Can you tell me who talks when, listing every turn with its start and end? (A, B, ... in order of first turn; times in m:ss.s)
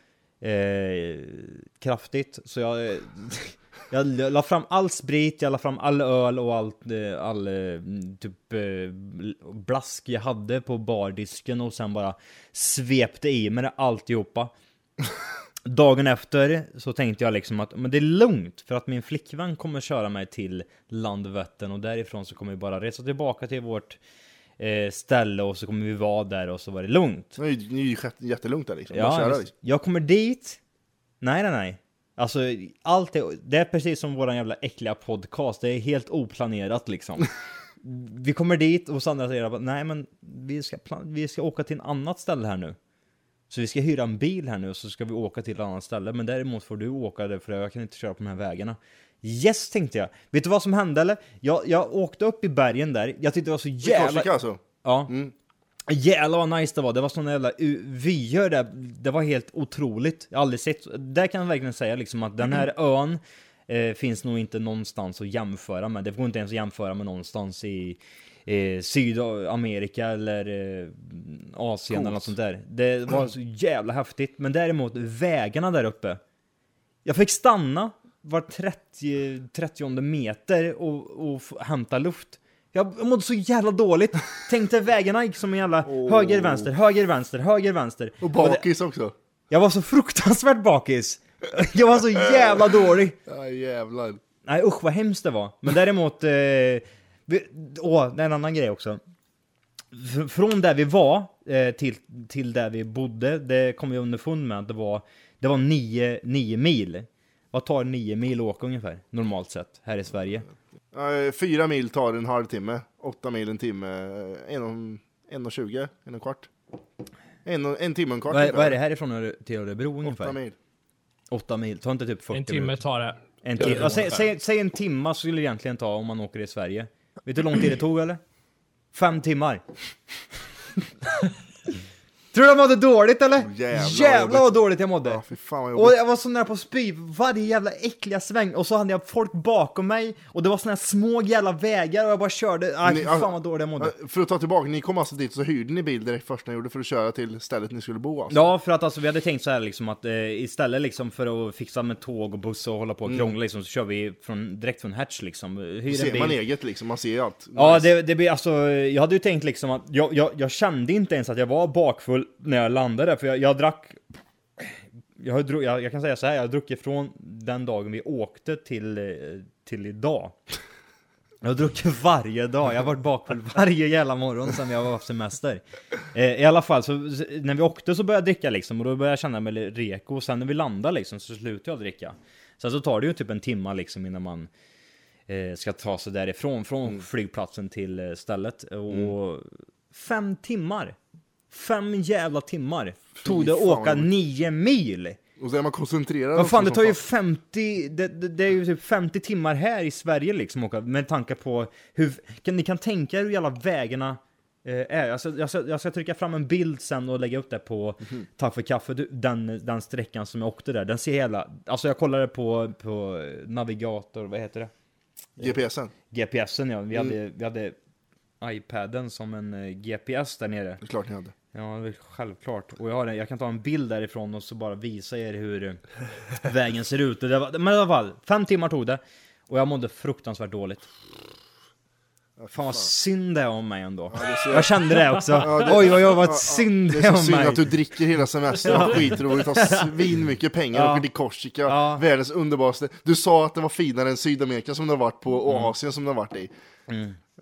0:00.4-0:14.5 A
0:15.7-0:24.0 A
0:24.6-0:27.4 A
0:27.4-0:29.5 B
0:28.9-0:30.6 A
0:31.2-0:37.3 A
0:37.8-0:42.8 A
0:43.5-0:54.3 A
0:53.8-0:55.3 B
0:54.8-0:55.1 A
0:55.9-1:16.2 A
1:11.9-1:12.3 B
1:17.0-1:28.6 A
1:25.8-1:26.7 B
1:28.2-1:29.1 B
1:29.5-1:33.1 A
1:33.2-1:34.2 B
1:34.4-1:39.0 A
1:39.9-1:50.4 A
1:50.9-1:56.5 B
1:57.4-1:58.8 B
1:58.3-2:00.4 A
2:00.0-2:00.6 B
2:01.3-2:02.7 A
2:02.3-2:04.3 C
2:03.4-2:08.2 A
2:08.9-2:09.6 A
2:12.3-2:15.2 A
2:13.4-2:16.0 B
2:15.8-2:23.9 A
2:22.8-2:28.4 B
2:28.3-2:36.3 A
2:33.0-2:33.3 B
2:35.9-2:37.9 B
2:37.6-2:44.0 A
2:44.6-2:50.3 A
2:51.4-2:55.6 A
2:56.1-3:04.5 A
3:05.3-3:10.9 A
3:11.5-3:15.2 A
3:13.2-3:14.1 B
3:15.4-3:17.0 B
3:16.4-3:34.7 A
3:35.4-3:35.9 B
3:36.1-3:37.7 A
3:38.4-3:40.8 A
3:40.8-3:41.3 B
3:41.5-3:45.8 A
3:46.4-3:50.8 A
3:52.4-3:52.8 B
3:52.5-3:57.6 A
3:54.1-3:54.7 B
3:55.3-4:06.5 B
3:58.6-3:59.9 A
4:00.7-4:01.0 A
4:01.7-4:02.0 A
4:06.9-4:07.2 A